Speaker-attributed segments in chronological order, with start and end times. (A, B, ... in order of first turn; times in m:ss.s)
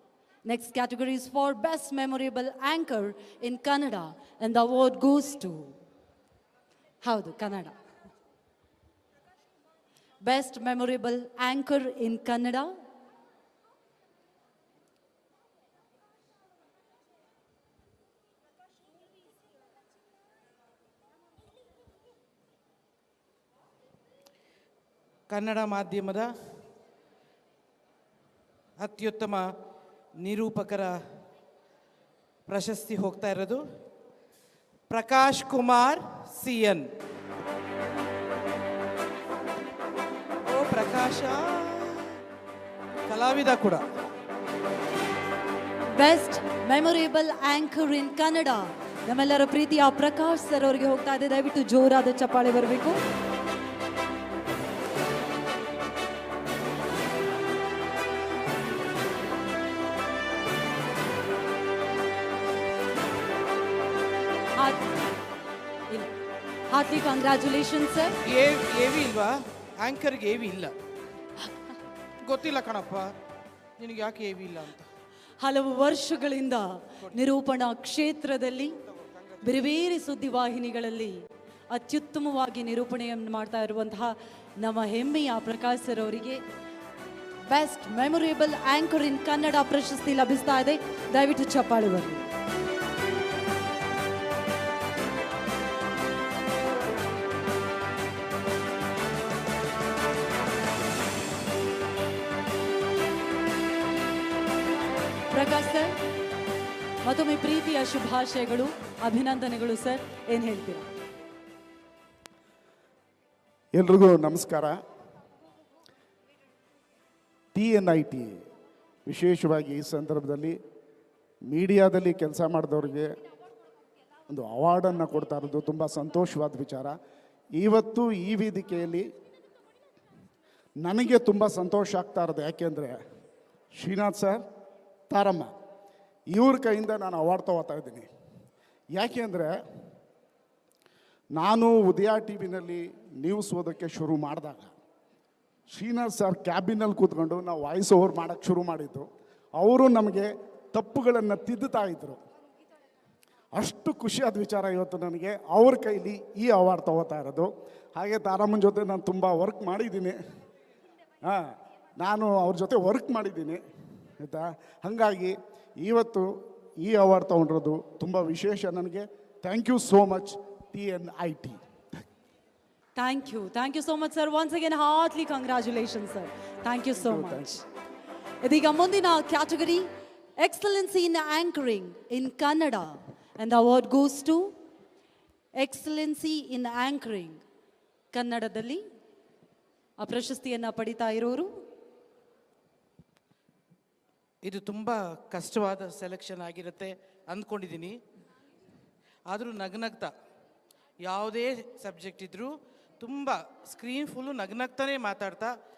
0:00.5-0:05.8 A
0:07.0-0:07.8 A
0:10.2-0:12.7 A
0:25.3-0:26.3 B
0:28.8-0:29.5 B
0:30.2-0:31.0 B
0:32.5-0:33.6 B
0:34.9-0:36.9 B
0:40.5-0:42.2 B
0:43.1-0:43.8 B
0:46.0-0:53.0 A
1:04.6-1:04.8 A
1:06.7-1:08.1 A
1:08.2-1:10.7 B
1:12.2-1:13.1 B
1:13.8-1:14.9 B
1:15.4-1:18.8 A
1:19.4-1:26.4 A
1:27.5-1:32.2 A
1:45.3-1:45.9 A
1:47.0-1:50.9 A
1:53.7-1:54.8 C
1:57.5-1:58.3 C
1:59.1-2:00.5 C
2:01.5-2:03.1 C
2:04.3-2:07.0 C
2:07.6-2:09.1 C
2:10.8-2:13.0 C
2:13.8-2:14.4 C
2:15.1-2:15.5 C
2:16.3-2:18.1 C
2:19.0-2:19.5 C
2:21.4-2:24.7 C
2:25.7-2:29.1 C
2:29.6-2:32.2 C
2:33.6-2:40.2 C
2:41.2-2:43.6 C
2:44.2-2:46.3 C
2:46.8-2:51.6 C
2:53.0-2:57.6 A
2:57.0-2:57.6 C
2:58.4-3:04.6 A
3:05.6-3:07.4 A
3:08.1-3:08.8 A
3:10.0-3:11.6 A
3:14.4-3:18.0 B
3:19.3-3:20.1 B
3:21.0-3:25.6 B